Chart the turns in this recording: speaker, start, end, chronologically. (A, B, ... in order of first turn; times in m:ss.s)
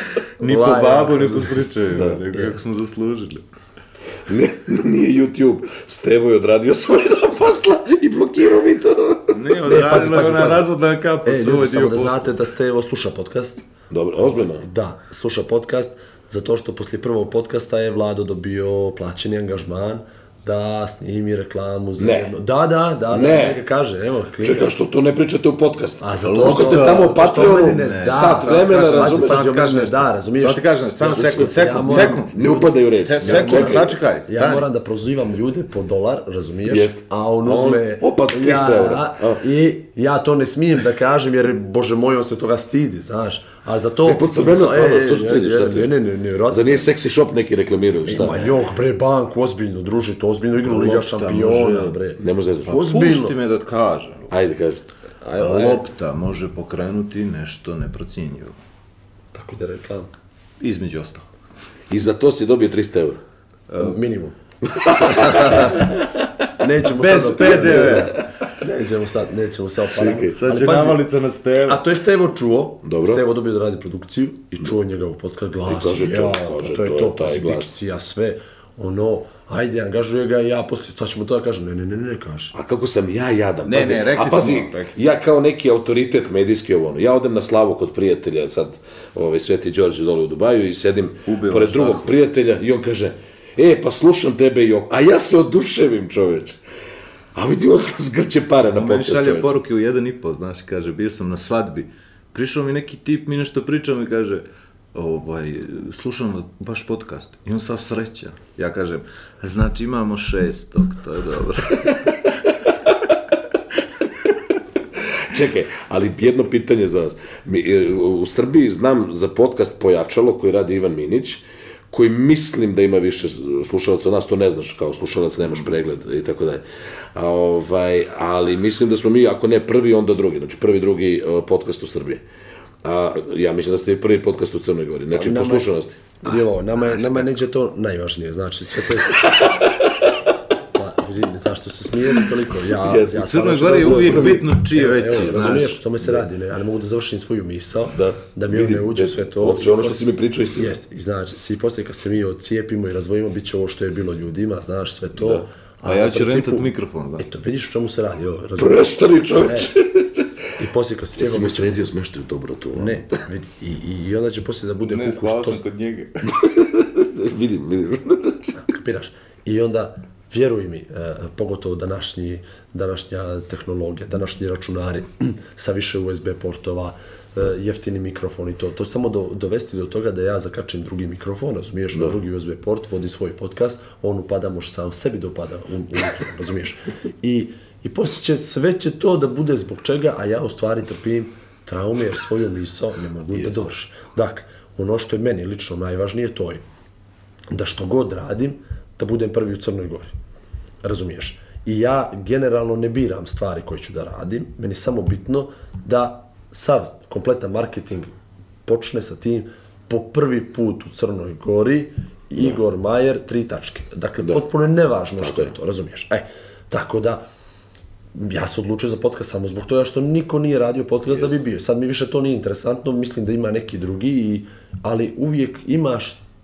0:00.4-0:02.6 A
0:00.4-0:03.4 B
0:04.3-0:09.5 C
0:09.3-0:12.3 B
0:09.6-0:10.7 A
0:11.2-0:13.6 A
0:13.9-0:14.6 C
0:14.2-0:24.7 A
0:22.0-0:22.3 C
0:23.1-0:23.6 C
0:24.4-0:29.5 C
0:26.0-0:46.9 A
0:26.2-0:32.4 B
0:31.1-0:34.0 C
0:33.0-0:34.7 B
0:36.7-0:39.4 C
0:44.0-0:45.9 C
0:46.5-0:48.5 C
0:48.0-0:53.3 A
0:50.6-0:52.0 B
0:52.2-0:52.8 C
0:52.7-0:54.3 B
0:54.3-0:54.8 C
0:55.2-0:55.8 A
0:55.4-0:58.6 B
0:59.3-1:00.1 A
1:00.6-1:01.2 B
1:01.9-1:03.2 C
1:03.7-1:04.0 B
1:03.8-1:04.4 A
1:04.6-1:05.8 C
1:05.0-1:05.8 A
1:06.6-1:11.0 A
1:06.8-1:08.2 B
1:09.9-1:10.4 C
1:10.3-1:11.8 B
1:11.6-1:22.5 A
1:12.8-1:13.2 C
1:15.6-1:17.8 C
1:22.5-1:36.6 C
1:23.6-1:25.0 B
1:31.3-1:32.1 B
1:37.3-1:39.6 C
1:38.7-1:52.2 B
1:55.2-2:06.6 C
2:07.1-2:12.2 C
2:12.8-2:17.2 C
2:15.1-2:19.3 A
2:19.2-2:20.2 C
2:20.7-2:30.0 A
2:22.8-2:23.2 C
2:22.9-2:25.8 B
2:23.8-2:24.5 C
2:25.1-2:26.2 C
2:27.9-2:30.8 C
2:30.6-2:39.7 A
2:35.2-2:35.4 C
2:35.8-2:37.2 B
2:38.6-2:40.2 C
2:40.6-2:41.8 A
2:41.2-2:43.2 C
2:42.7-2:45.6 A
2:44.8-2:46.3 B
2:46.2-2:48.5 C
2:48.5-3:16.6 A
3:13.3-3:13.6 C
3:17.5-3:20.1 A
3:20.8-3:28.1 A
3:28.6-3:37.2 A
3:35.2-3:35.6 C
3:38.1-3:46.2 A